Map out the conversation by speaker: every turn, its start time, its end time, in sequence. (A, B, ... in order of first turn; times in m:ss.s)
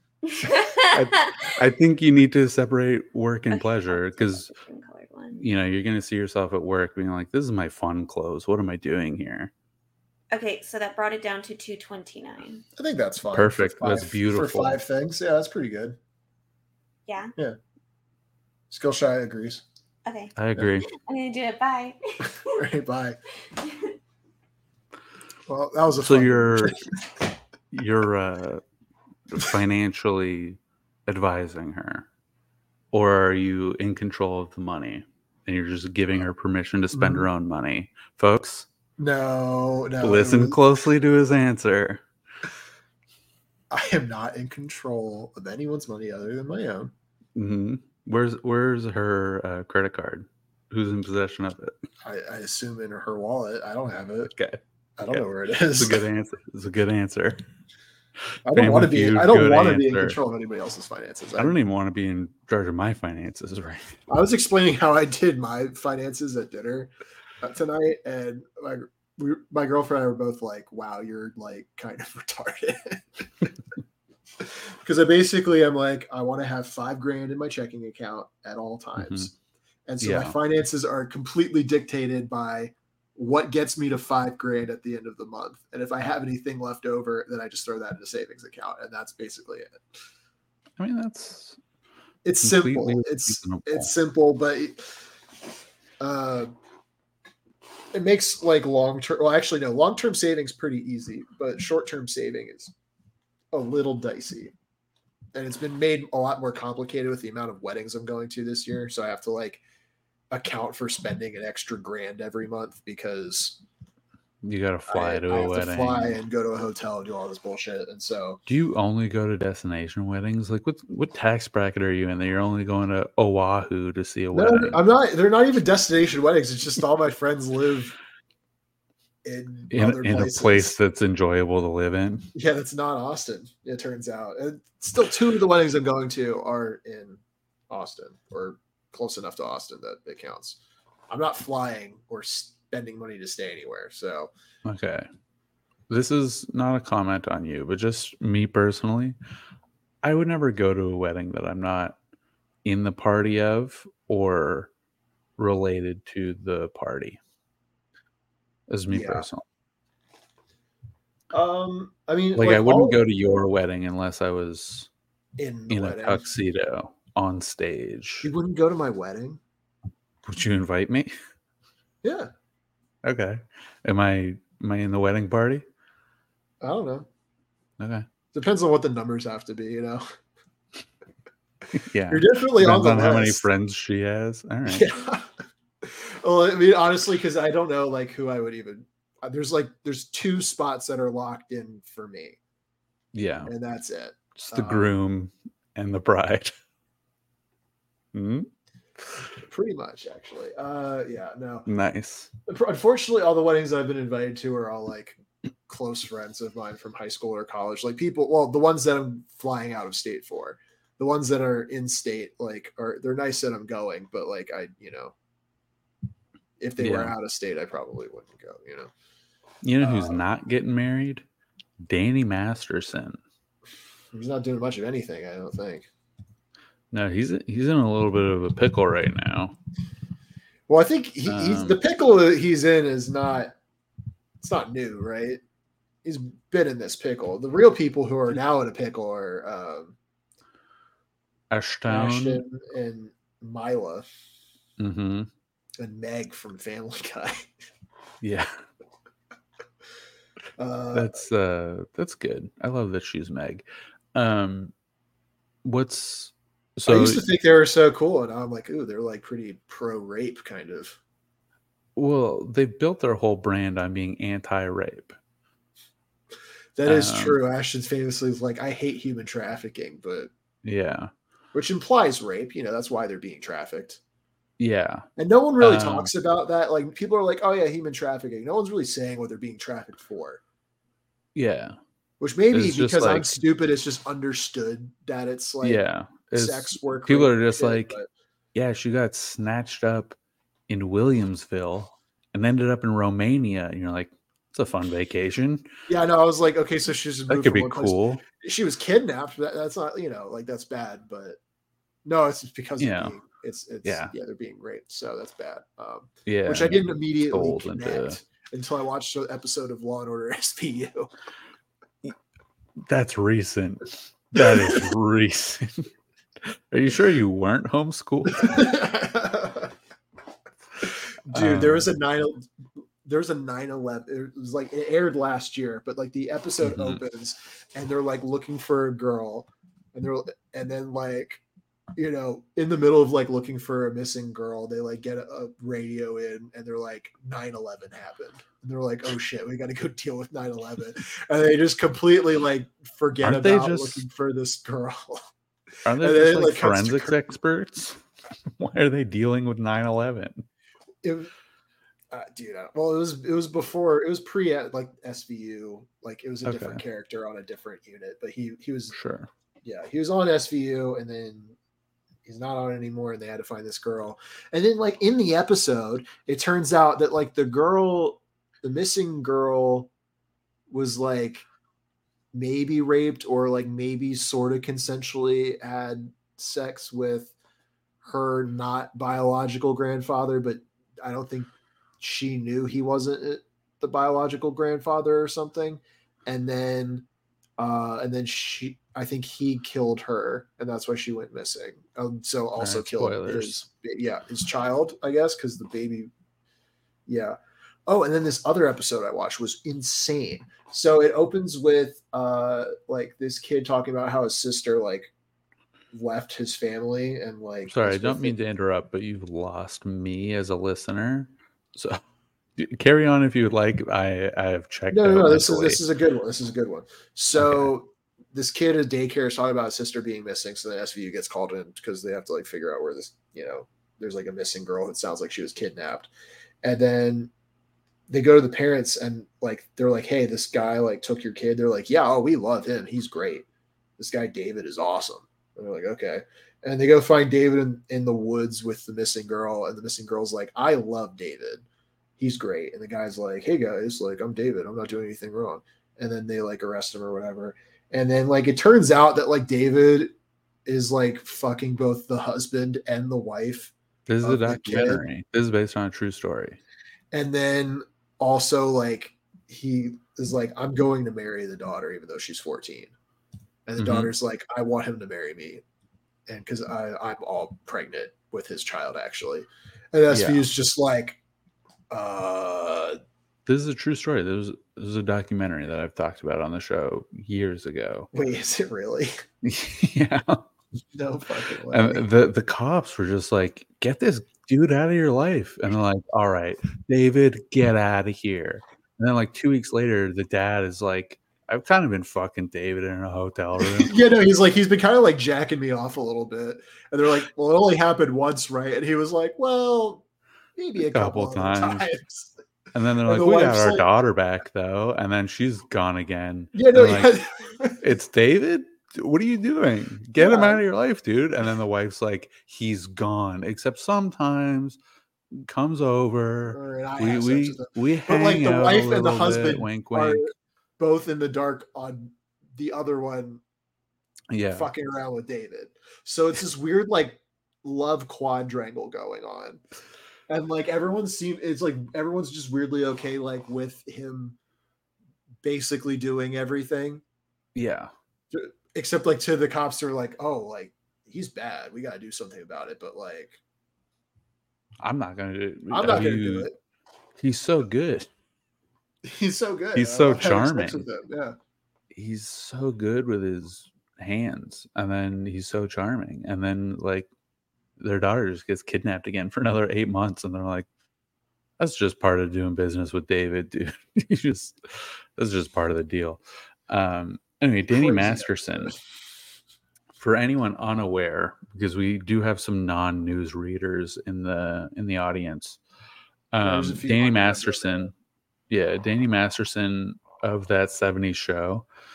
0:00.2-0:01.6 A
0:00.9-0:04.5 B
0:03.5-0:05.4 A
0:05.3-0:09.5 B
0:10.3-0:12.6 A
0:12.8-0:16.0 C
0:13.3-0:14.8 B
0:17.1-0:17.3 A
0:18.7-0:19.6 C
0:20.0-0:20.3 A
0:20.4-0:20.9 B
0:20.9-0:22.6 A
0:22.3-0:23.2 C
0:23.6-0:24.0 A
0:25.5-0:26.8 C
0:26.0-0:26.8 B
0:27.7-0:28.6 B
0:29.3-0:32.1 B
0:32.9-0:38.7 B
0:36.9-0:37.3 C
0:39.0-0:40.6 C
0:40.0-0:42.0 B
0:43.7-0:46.9 C
0:47.4-0:51.8 B
0:52.0-0:54.3 C
0:54.3-0:57.4 B
0:55.0-0:56.0 C
0:58.4-1:01.6 C
0:58.5-1:00.2 B
1:01.4-1:03.9 B
1:04.1-1:13.3 C
1:14.4-1:19.3 C
1:19.0-1:19.3 B
1:19.9-1:29.8 C
1:20.0-1:20.4 B
1:30.8-1:31.6 B
1:32.2-1:34.9 C
1:32.4-1:33.9 B
1:36.0-1:36.5 C
1:37.9-1:42.7 C
1:43.5-1:44.5 C
1:45.3-1:49.6 C
1:50.3-1:53.6 C
1:54.4-1:56.2 B
1:54.9-1:58.4 C
1:58.5-2:04.8 B
2:04.3-2:08.0 C
2:09.2-2:10.8 C
2:09.7-2:12.3 B
2:12.3-2:20.6 C
2:21.1-2:24.3 C
2:24.6-2:25.1 B
2:25.9-2:29.2 B
2:30.0-2:32.0 B
2:32.6-2:34.7 B
2:35.4-2:37.2 B
2:38.7-2:39.4 B
2:38.9-2:39.3 C
2:41.3-2:43.0 C
2:42.4-2:44.9 B
2:45.4-2:46.2 C
2:45.7-2:48.3 B
2:48.2-2:49.4 C
2:50.2-2:51.1 B
2:52.0-2:52.3 C
2:53.0-2:55.6 B
2:56.6-2:57.1 C
2:57.8-2:58.1 B
2:58.3-3:00.0 C
3:01.8-3:04.9 B
3:02.1-3:03.5 C
3:04.7-3:12.4 C
3:13.1-3:13.5 B
3:13.5-3:14.9 C
3:14.4-3:16.5 B
3:18.1-3:18.5 B
3:19.4-3:21.7 C
3:21.7-3:22.3 B
3:22.5-3:35.1 C
3:36.6-3:38.9 C
3:36.8-3:37.2 B
3:39.6-3:41.2 B
3:39.8-3:40.2 C
3:41.8-3:43.2 B
3:44.1-3:45.9 C
3:46.9-3:49.6 B
3:50.7-3:53.6 C
3:51.3-3:51.8 B
3:54.4-3:55.4 C
3:56.0-4:00.0 C
4:01.5-4:02.4 B
4:01.9-4:04.1 C
4:04.8-4:05.3 B
4:05.8-4:07.5 C
4:08.2-4:08.6 B
4:10.6-4:11.2 C
4:10.9-4:14.7 B
4:15.6-4:17.2 B
4:16.9-4:21.0 C
4:22.0-4:25.2 B
4:26.8-4:30.3 C
4:26.9-4:27.4 B
4:30.6-4:31.1 B
4:31.5-4:34.0 C
4:34.6-4:35.1 B
4:35.2-4:40.4 C
4:35.6-4:36.1 B
4:41.4-4:41.8 B
4:42.2-4:45.8 C
4:42.5-4:43.4 B
4:45.6-4:48.0 B
4:46.4-4:48.1 C
4:48.5-4:50.2 B
4:50.7-4:55.7 B
4:55.9-5:01.4 C
4:57.3-4:58.2 B
5:02.0-5:11.1 C
5:02.8-5:03.2 B
5:03.8-5:04.1 B
5:06.3-5:08.2 B
5:12.8-5:15.9 B
5:14.4-5:14.8 C
5:16.4-5:18.7 B
5:18.3-5:19.7 C
5:20.9-5:22.5 C
5:21.3-5:21.9 B
5:23.0-5:31.4 C
5:26.6-5:27.0 B
5:32.0-5:45.2 C
5:43.2-5:44.0 B
5:45.9-5:48.0 B
5:46.0-5:47.2 C
5:48.6-5:50.4 B
5:51.0-5:51.3 C
5:52.1-5:59.0 C
5:56.4-5:56.8 B
5:58.9-5:59.3 B
5:59.6-6:01.6 C
6:02.3-6:09.9 C
6:10.7-6:11.5 C
6:12.3-6:17.3 C
6:18.0-6:27.0 C
6:27.6-6:36.1 C
6:32.6-6:33.6 B
6:37.1-6:45.1 C
6:45.9-6:48.4 C
6:47.7-6:52.0 B
6:52.6-6:55.8 B
6:54.9-7:06.1 C
6:57.3-6:57.7 B
7:06.6-7:07.3 C
7:08.1-7:13.5 C
7:14.0-7:21.6 C
7:22.2-7:30.1 C
7:30.7-7:35.0 C
7:34.1-7:36.6 B
7:37.1-7:42.9 C
7:43.7-7:45.6 C
7:43.8-7:44.1 B
7:46.3-7:51.2 C
7:50.1-7:50.5 B
7:51.9-7:53.0 C
7:53.5-7:58.1 B
7:58.1-7:59.1 C
7:59.4-8:00.4 B
8:00.9-8:02.1 C
8:01.7-8:14.0 B
8:13.6-8:20.0 C
8:20.6-8:22.3 C
8:20.8-8:21.9 B
8:22.7-8:27.1 B
8:23.0-8:23.9 C
8:26.5-8:27.9 C
8:27.8-8:34.8 B
8:30.2-8:30.6 C
8:35.3-8:40.2 B
8:36.5-8:43.4 C
8:44.3-8:44.7 B
8:44.5-8:49.6 C
8:50.3-8:54.4 C
8:55.4-8:57.0 C
8:57.6-8:57.9 B
8:58.3-9:03.4 C
9:04.8-9:06.5 B
9:05.7-9:06.6 C
9:07.2-9:08.1 B
9:09.0-9:11.4 C
9:09.8-9:10.9 B
9:11.9-9:17.1 B
9:17.8-9:20.7 B
9:21.6-9:24.6 B
9:25.2-9:28.8 B
9:27.7-9:28.8 C
9:30.0-9:35.6 B
9:36.3-9:37.9 B
9:36.4-9:37.9 C
9:38.5-9:41.7 B